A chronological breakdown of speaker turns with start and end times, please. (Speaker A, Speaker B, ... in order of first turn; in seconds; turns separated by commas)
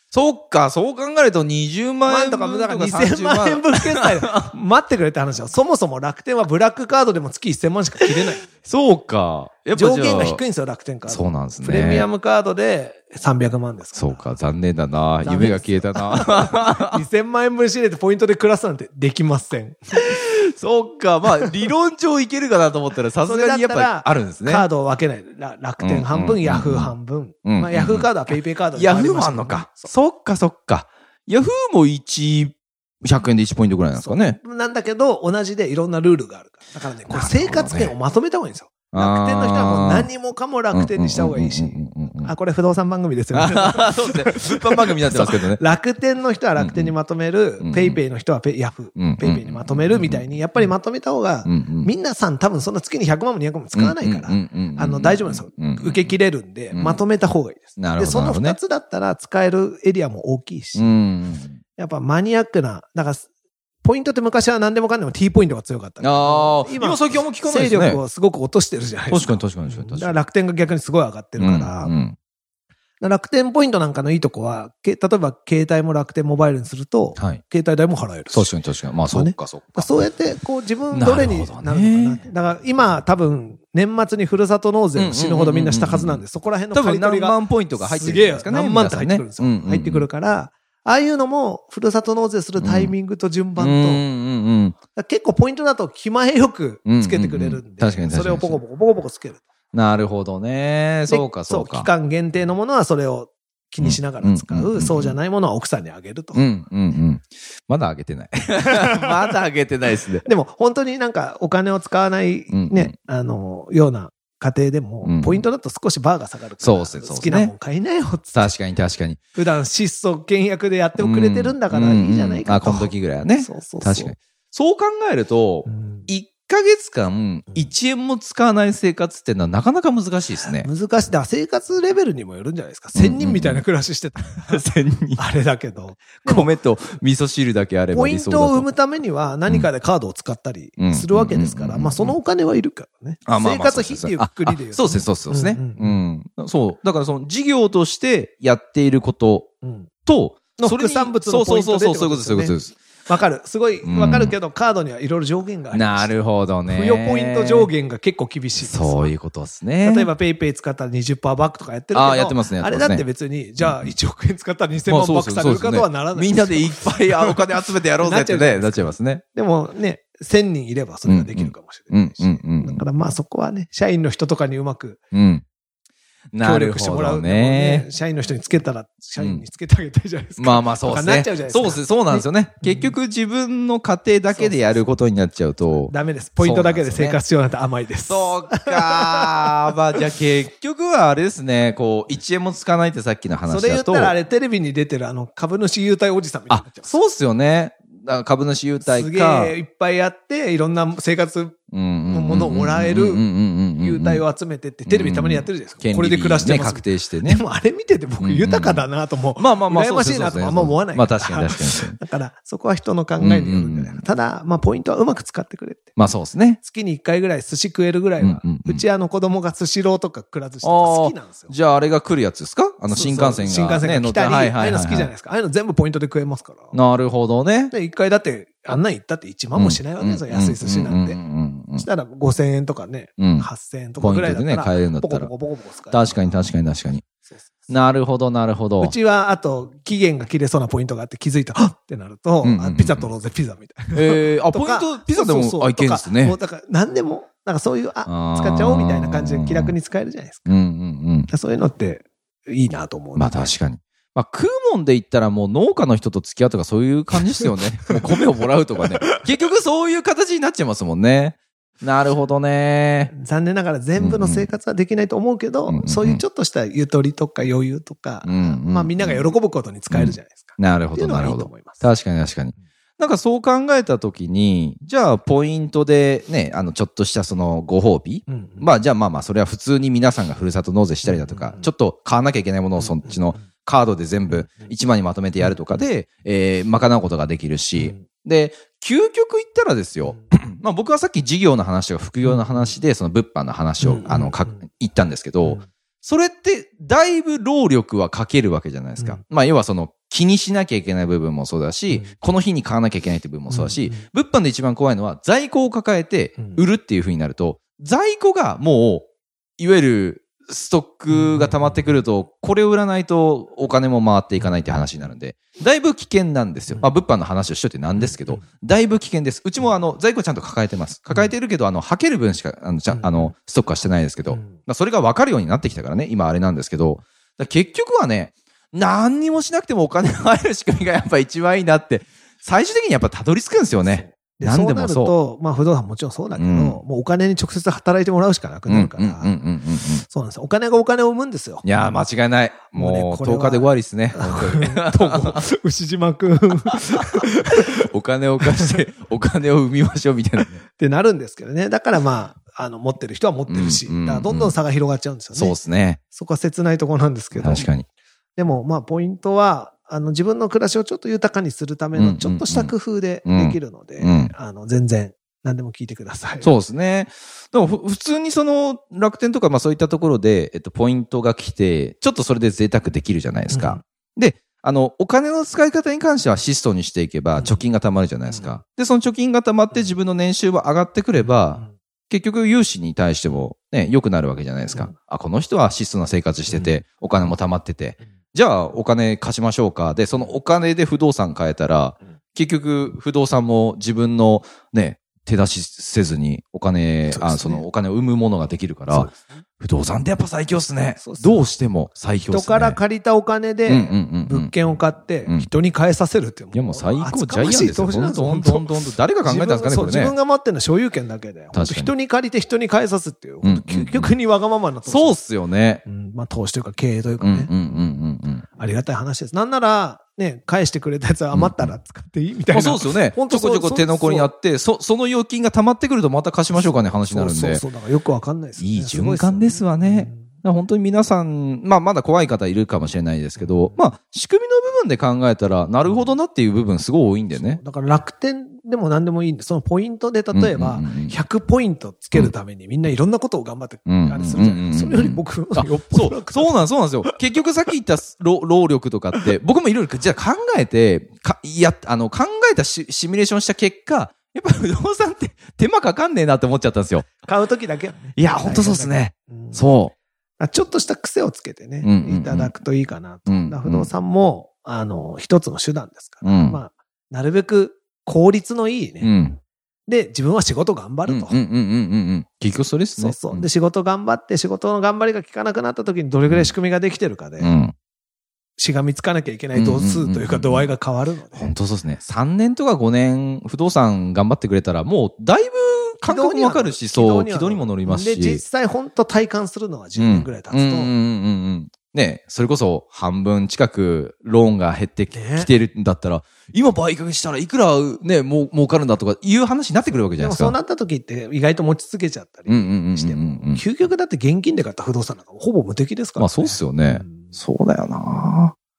Speaker A: 0.1-4.5, Speaker B: 2.1-8.6, Speaker A: 8.5-10.4, Speaker B: 9.7-14.3, Speaker A: 11.1-12.1, Speaker A: 13.9-17.0, Speaker B: 15.2-20.0, Speaker A: 19.9-24.7, Speaker B: 23.2-29.9, Speaker A: 25.8-26.9, Speaker A: 27.4-28.1, Speaker A: 28.7-34.4, Speaker B: 34.0-61.0, Speaker A: 37.1-38.0, Speaker A: 38.9-40.1, Speaker A: 40.7-42.3, Speaker A: 43.3-45.6, Speaker A: 46.6-47.0, Speaker A: 47.6-48.0, Speaker A: 49.0-50.7, Speaker A: 51.5-51.9, Speaker A: 53.7-56.1, Speaker A: 56.7-57.0, Speaker A: 57.8-58.6, Speaker A: 60.8-61.6, Speaker B: 61.8-63.3, Speaker B: 63.8-71.9, Speaker A: 66.0-68.0, Speaker A: 69.1-70.2, Speaker A: 71.4-72.2, Speaker B: 73.0-78.6, Speaker A: 78.3-80.1, Speaker B: 79.1-94.0, Speaker A: 80.9-82.3, Speaker A: 85.0-90.1, Speaker A: 92.6-92.9, Speaker A: 93.6-94.8, Speaker B: 94.9-99.4, Speaker A: 96.8-98.6, Speaker A: 99.7-101.9, Speaker B: 101.1-106.5, Speaker A: 103.8-105.2, Speaker A: 106.3-110.3, Speaker B: 110.2-118.5, Speaker A: 112.5-112.9, Speaker A: 115.0-115.4, Speaker A: 116.6-117.5, Speaker A: 118.3-119.2, Speaker B: 119.3-124.1, Speaker A: 121.0-130.7, Speaker B: 125.7-126.1, Speaker B: 130.6-136.6, Speaker A: 132.9-133.6, Speaker A: 134.3-135.2, Speaker A: 136.2-138.7, Speaker B: 137.9-146.0, Speaker A: 140.8-142.2, Speaker A: 143.3-149.5, Speaker B: 149.6-149.9, Speaker A: 150.1-152.8, Speaker B: 150.6-159.1, Speaker A: 153.8-154.3, Speaker A: 155.7-157.7, Speaker A: 158.6-160.1, Speaker B: 159.8-175.0, Speaker A: 161.9-163.1, Speaker A: 163.6-163.9, Speaker A: 164.9-169.2, Speaker A: 171.1-172.8, Speaker A: 175.1-175.4, Speaker A: 176.3-177.9, Speaker B: 176.4-182.9, Speaker A: 179.2-179.4, Speaker A: 180.4-187.2, Speaker B: 184.3-185.0, Speaker B: 185.7-189.7, Speaker A: 188.1-194.1, Speaker B: 193.5-197.0, Speaker A: 196.5-199.6, Speaker B: 198.8-203.2, Speaker A: 201.7-204.2, Speaker B: 203.8-215.9, Speaker A: 204.9-207.4, Speaker A: 208.2-208.8, Speaker A: 209.4-212.0, Speaker A: 213.2-214.0, Speaker A: 216.0-216.6, Speaker B: 216.6-221.6, Speaker A: 218.2-218.8, Speaker A: 220.6-225.1, Speaker B: 222.9-226.8, Speaker A: 226.7-227.7, Speaker B: 227.7-231.2, Speaker A: 229.6-231.9, Speaker B: 231.8-236.4, Speaker A: 233.2-235.3, Speaker A: 235.9-237.0, Speaker B: 237.3-237.7, Speaker A: 237.7-238.9, Speaker B: 238.8-250.6, Speaker A: 242.4-243.1, Speaker A: 243.9-246.4, Speaker A: 248.1-249.8, Speaker A: 250.5-251.3, Speaker B: 251.3-253.5, Speaker A: 253.2-263.1, Speaker B: 263.1-271.8, Speaker A: 264.0-264.5, Speaker A: 265.7-266.2, Speaker A: 268.2-269.3, Speaker A: 269.9-309.1, Speaker B: 278.3-278.7, Speaker B: 281.1-281.7, Speaker B: 282.8-283.3, Speaker B: 284.3-284.6, Speaker B: 285.4-285.8, Speaker B: 287.8-288.0, Speaker B: 292.2-292.7, Speaker B: 293.8-294.5, Speaker B: 303.5-304.1, Speaker A: 309.6-335.1, Speaker B: 311.1-312.0, Speaker B: 314.4-314.9, Speaker B: 318.0-318.4, Speaker B: 322.9-323.3, Speaker B: 324.3-324.6, Speaker B: 333.9-339.4, Speaker A: 336.4-336.8, Speaker A: 338.7-340.1, Speaker B: 340.1-341.8, Speaker A: 341.6-345.4, Speaker B: 342.7-347.7, Speaker A: 346.7-350.6, Speaker B: 350.8-355.6, Speaker A: 353.5-354.6, Speaker A: 355.3-356.0, Speaker B: 356.1-357.7, Speaker A: 357.4-357.9, Speaker B: 358.4-366.5, Speaker A: 361.9-362.7, Speaker A: 363.2-364.3, Speaker A: 366.4-402.8, Speaker B: 373.5-373.8, Speaker B: 377.4-377.6, Speaker B: 378.3-378.6, Speaker B: 381.2-381.7, Speaker B: 386.5-386.8, Speaker B: 397.1-397.6, Speaker B: 398.9-399.4, Speaker B: 401.0-401.5, Speaker B: 402.3-415.2, Speaker A: 403.7-404.5, Speaker A: 405.2-405.5, Speaker A: 406.5-410.1, Speaker A: 411.5-411.9, Speaker A: 413.4-414.1, Speaker A: 414.9-415.8, Speaker B: 415.9-417.5, Speaker A: 417.2-418.5, Speaker B: 418.5-424.3, Speaker A: 421.3-421.7, Speaker A: 422.5-427.6, Speaker B: 426.5-430.3, Speaker A: 428.6-437.6, Speaker B: 433.4-433.8, Speaker B: 435.9-436.1, Speaker B: 437.3-447.1, Speaker A: 440.3-441.2, Speaker A: 443.9-457.2, Speaker B: 457.2-459.7, Speaker A: 458.2-459.9, Speaker B: 460.4-469.1, Speaker A: 461.8-462.6, Speaker A: 463.3-463.9, Speaker A: 466.2-466.6, Speaker A: 469.0-469.4, Speaker B: 469.9-471.4, Speaker A: 471.1-473.5, Speaker B: 473.0-477.5, Speaker A: 476.3-476.5, Speaker A: 477.4-477.7, Speaker B: 478.6-481.5, Speaker A: 479.5-480.7, Speaker A: 481.3-488.4, Speaker B: 486.1-490.9, Speaker A: 490.0-500.6, Speaker B: 495.1-495.5, Speaker B: 499.9-507.4, Speaker A: 502.5-503.6, Speaker A: 506.2-508.5